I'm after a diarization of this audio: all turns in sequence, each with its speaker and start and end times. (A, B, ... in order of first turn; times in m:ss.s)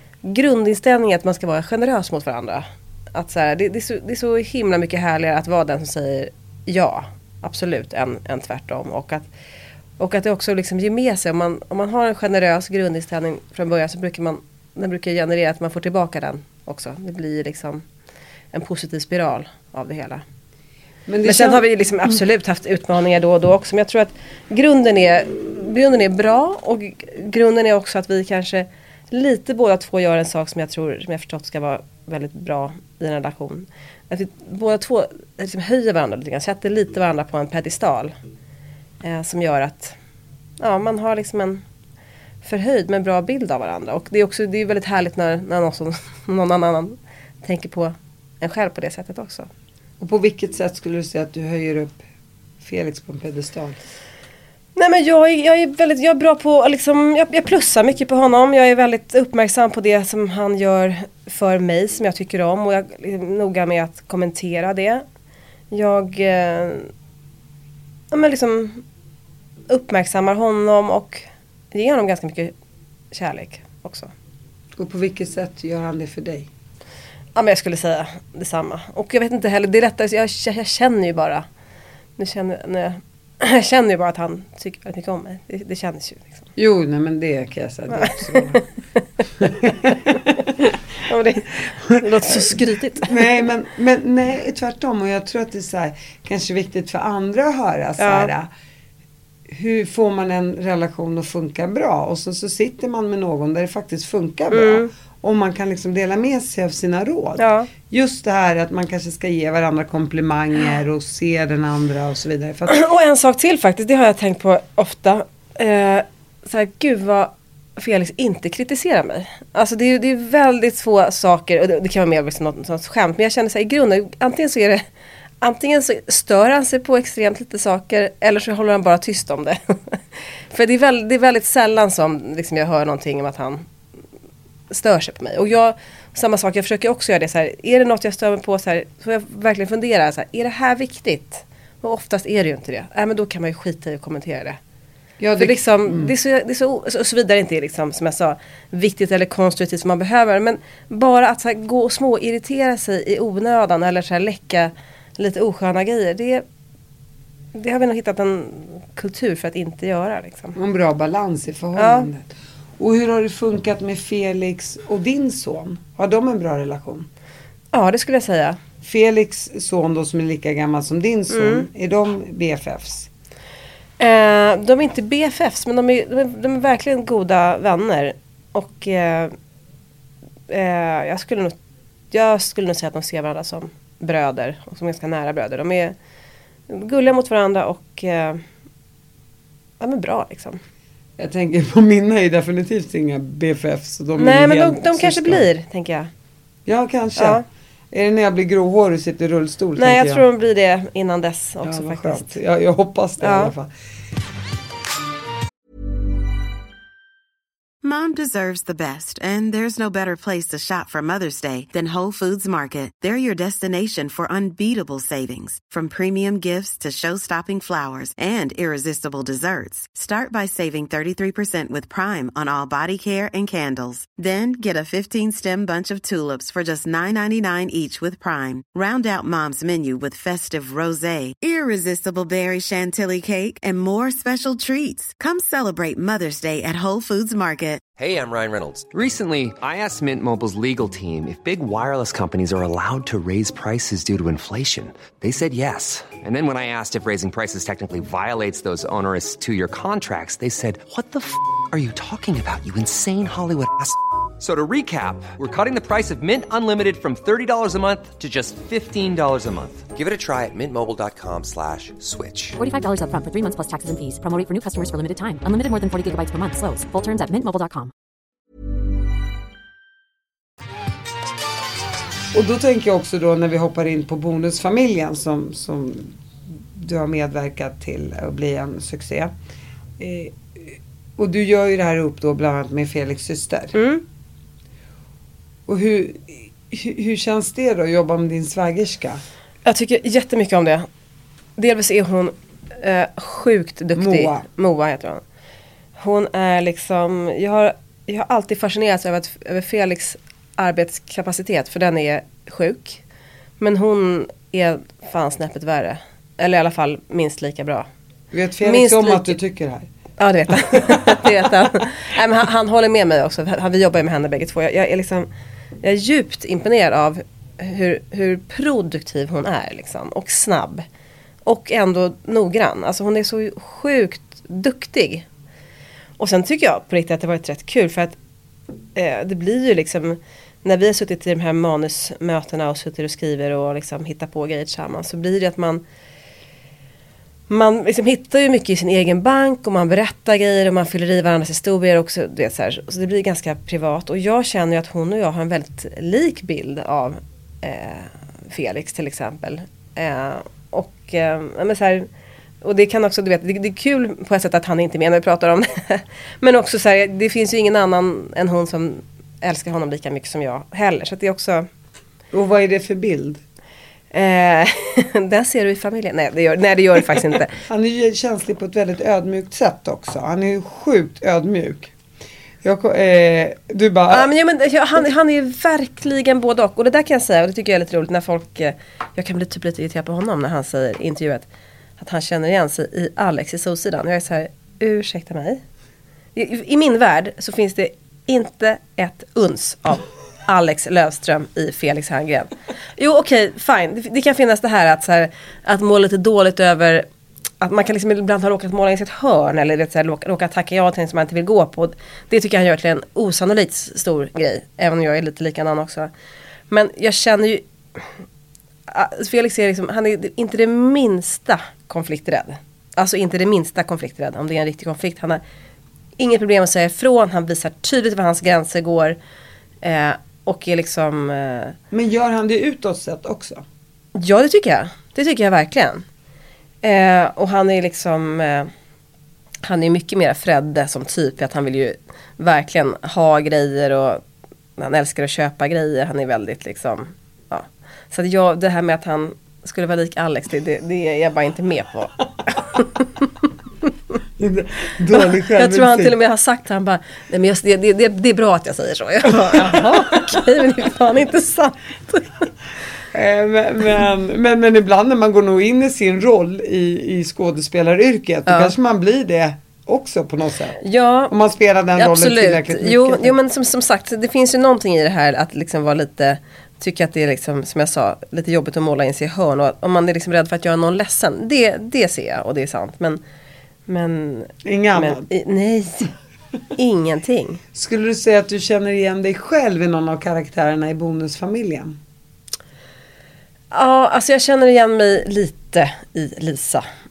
0:00.2-0:09.3 A
0:10.0-0:17.8 A
0:18.5-0:20.2 A
0:21.1-0:21.6 B
0:21.2-0:38.1 A
0:39.0-0:40.0 A
0:40.6-0:41.6 A
0:42.4-0:49.5 A
0:50.0-0:52.0 B
0:52.6-0:53.8 B
0:54.8-1:05.0 A
1:05.7-1:06.9 A
1:08.1-1:08.8 A
1:09.7-1:12.5 A
1:13.1-1:14.1 A
1:14.7-1:16.5 B
1:17.4-1:21.4 A
1:22.2-1:26.4 A
1:26.6-1:28.6 B
1:27.9-1:28.6 A
1:29.4-1:30.6 B
1:31.0-1:33.4 A
1:31.9-1:38.5 B
1:38.0-1:38.3 A
1:39.5-1:52.8 B
1:44.5-1:44.9 A
1:47.4-1:47.7 A
1:52.7-2:04.8 A
2:05.4-2:10.0 A
2:10.5-2:13.6 A
2:14.7-2:24.6 A
2:25.2-2:26.1 B
2:25.4-2:36.4 A
2:37.5-2:40.5 A
2:40.5-2:47.1 B
2:41.8-2:42.1 A
2:47.7-2:48.6 A
2:48.8-2:53.1 B
2:51.3-2:51.7 A
2:54.0-2:59.3 A
3:00.5-3:01.5 A
3:02.1-3:05.9 A
3:06.7-3:08.4 A
3:09.8-3:10.6 A
3:11.2-3:15.5 B
3:14.2-3:16.1 A
3:16.6-3:20.2 B
3:17.2-3:17.4 A
3:19.8-3:22.3 A
3:21.6-3:23.7 B
3:23.2-3:23.5 A
3:27.8-3:57.8 C
3:58.0-4:22.6 D
4:22.6-4:27.9 E
4:32.3-4:36.1 B
4:36.7-4:39.3 B
4:40.0-4:43.8 B
4:43.7-4:44.0 A
4:45.7-4:49.2 B
4:49.6-4:50.9 A
4:51.6-4:55.2 A
4:53.9-4:54.4 B
4:56.0-5:03.0 A
5:03.6-5:07.9 A
5:08.3-5:09.9 B
5:08.6-5:09.3 A
5:10.2-5:15.3 A
5:15.8-5:20.8 A
5:21.4-5:25.2 A
5:26.2-5:28.2 A
5:28.9-5:35.8 A
5:37.5-5:52.1 A
5:52.6-6:01.7 A
6:02.3-6:03.4 B
6:04.1-6:07.5 A
6:07.7-6:11.9 B
6:12.6-6:14.3 B
6:14.1-6:21.4 A
6:22.0-6:25.6 A
6:26.4-6:37.0 A
6:37.6-6:46.1 A
6:46.7-6:48.2 A
6:48.9-6:55.4 A
6:56.2-6:59.2 A
6:59.8-7:01.8 A
7:01.9-7:03.6 B
7:04.1-7:06.0 A
7:06.8-7:08.7 A
7:09.6-7:14.2 A
7:14.8-7:23.2 A
7:24.4-7:26.1 B
7:25.3-7:32.5 A
7:29.2-7:30.4 B
7:33.1-7:43.4 B
7:38.5-7:38.7 A
7:40.8-7:41.3 A
7:42.0-7:53.2 A
7:53.9-7:56.1 A
7:54.6-7:55.3 B
7:56.8-7:57.6 A
7:57.7-8:02.0 B
8:03.7-8:06.8 A